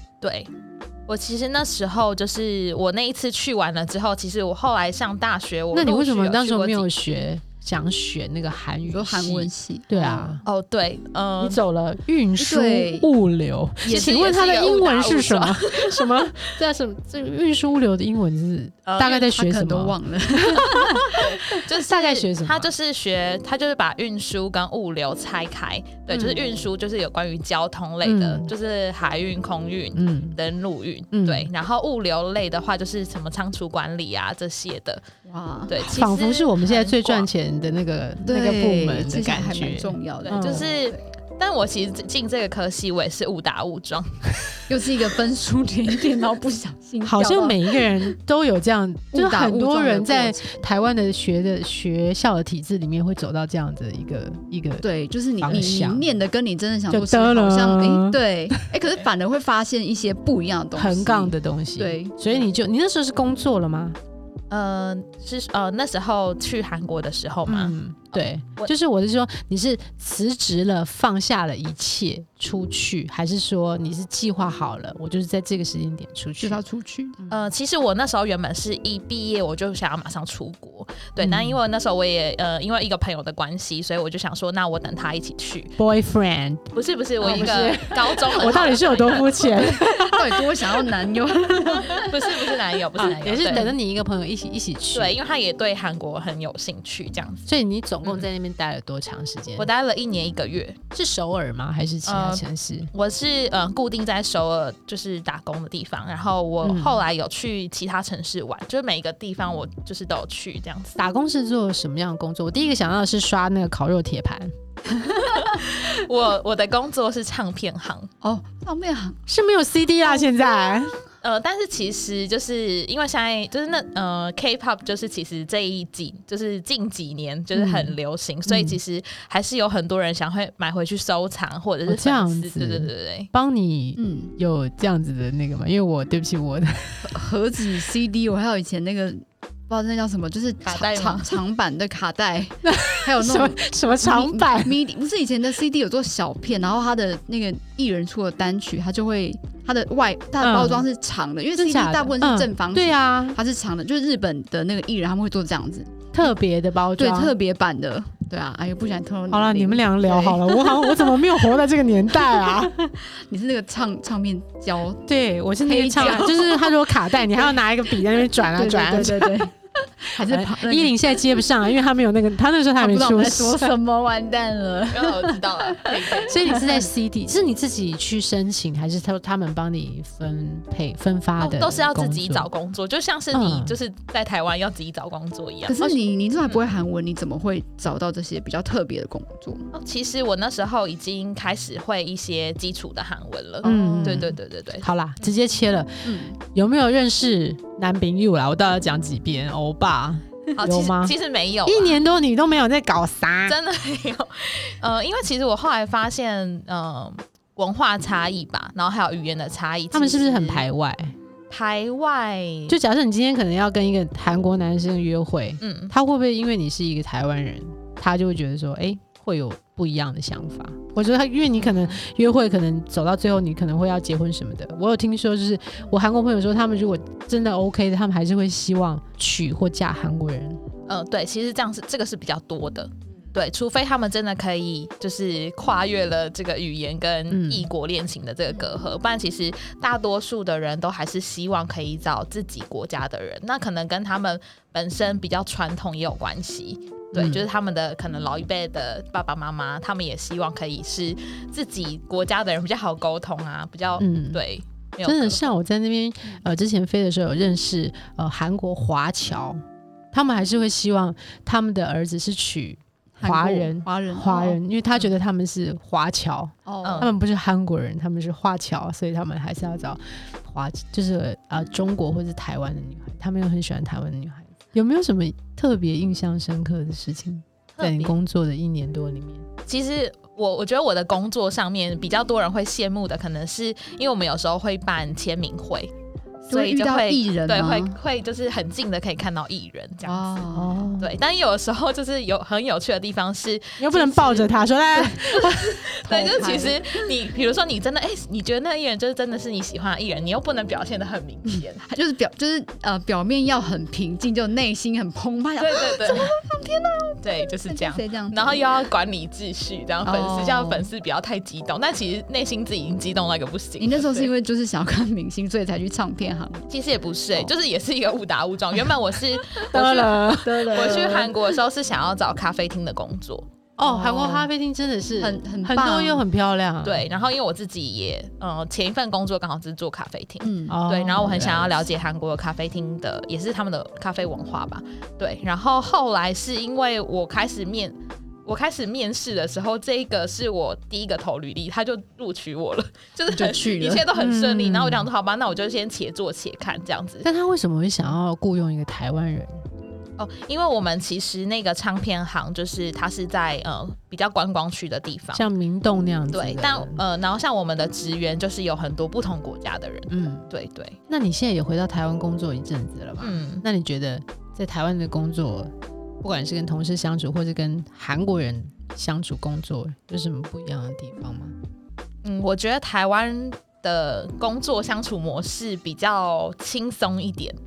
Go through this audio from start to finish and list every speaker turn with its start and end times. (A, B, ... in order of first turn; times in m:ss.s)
0:00.2-0:00.5 A
0:01.1-0:06.9 A
0:05.7-0:10.4 B
0:08.8-0:10.4 C
0:10.4-0:11.6 A
0:11.4-0:22.7 B
0:12.4-0:13.1 C
0:13.8-0:14.2 C
0:13.9-0:16.2 A
0:18.9-0:19.2 A
0:19.0-0:21.6 C
0:21.0-0:35.0 A
0:26.1-0:26.5 B
0:28.0-0:28.5 B
0:29.9-0:30.4 B
0:31.1-0:31.5 B
0:35.2-0:35.8 C
0:35.7-0:37.3 A
0:35.8-0:40.7 B
0:38.2-0:41.0 C
0:40.2-0:44.3 A
0:44.7-0:48.1 C
0:47.0-0:54.8 B
0:49.1-0:50.6 C
0:54.8-1:02.3 C
0:55.4-0:56.0 B
0:56.9-0:58.6 B
1:00.8-1:04.0 B
1:04.5-1:08.7 A
1:07.4-1:16.6 B
1:16.4-1:17.2 C
1:17.3-1:25.8 A
1:21.2-1:21.6 B
1:25.8-1:26.7 B
1:26.7-1:29.6 A
1:27.2-1:30.9 B
1:27.2-1:27.6 C
1:29.8-1:32.1 C
1:31.5-1:32.0 B
1:31.9-1:33.7 A
1:33.0-1:35.2 B
1:34.9-1:37.5 A
1:37.5-1:39.7 B
1:39.6-1:40.8 A
1:40.9-1:42.9 B
1:42.0-1:51.0 A
1:46.6-1:47.0 B
1:50.9-1:54.5 B
1:55.1-1:58.1 A
1:58.2-1:59.2 C
1:59.3-2:01.0 B
2:01.2-2:13.3 A
2:07.5-2:07.9 B
2:08.5-2:08.8 B
2:11.9-2:17.1 B
2:14.0-2:14.3 C
2:17.0-2:36.1 C
2:20.6-2:21.4 A
2:22.6-2:24.8 B
2:30.4-2:30.8 B
2:31.6-2:33.4 B
2:36.1-2:37.3 B
2:37.0-2:41.6 C
2:39.3-2:42.9 B
2:42.2-2:45.0 C
2:45.1-2:49.4 B
2:45.6-2:51.2 C
2:50.2-2:53.7 B
2:52.8-2:56.9 C
2:54.9-2:56.6 A
2:56.3-3:02.5 B
3:01.4-3:05.8 A
3:03.3-3:03.8 B
3:05.6-3:09.7 C
3:09.7-3:14.8 A
3:13.6-3:14.3 C
3:13.6-3:23.6 B
3:16.0-3:16.4 C
3:20.6-3:22.0 A
3:23.4-3:30.6 A
3:29.9-3:31.1 B
3:31.5-3:32.8 A
3:32.7-3:50.6 B
3:35.6-3:35.9 A
3:50.9-4:15.5 A
3:57.3-3:57.7 B
4:07.1-4:07.4 B
4:14.0-4:14.4 B
4:15.0-4:19.6 B
4:20.1-4:39.4 B
4:23.2-4:24.6 C
4:26.6-4:27.1 C
4:26.8-4:27.1 A
4:37.8-4:38.1 A
4:39.6-4:45.9 A
4:46.5-4:48.0 C
4:46.5-4:54.6 A
4:50.0-4:50.8 C
4:50.5-4:51.1 B
4:53.8-4:55.8 B
4:54.9-4:57.0 C
4:55.4-5:01.9 A
5:01.9-5:08.6 C
5:05.6-5:06.3 A
5:07.2-5:14.3 A
5:10.0-5:10.9 C
5:13.8-5:16.7 C
5:16.7-5:23.5 A
5:19.7-5:21.0 B
5:20.4-5:21.4 C
5:23.8-5:27.0 B
5:23.8-5:24.5 C
5:25.2-5:26.2 C
5:26.8-5:47.3 A
5:30.4-5:30.8 C
5:30.7-5:31.9 B
5:43.3-5:44.1 C
5:44.1-5:45.1 B
5:47.2-5:49.6 B
5:50.2-5:55.4 A
5:55.3-5:57.0 B
5:56.3-6:01.0 A
6:00.1-6:00.5 B
6:01.1-6:11.5 B
6:03.2-6:03.6 A
6:12.2-6:17.6 A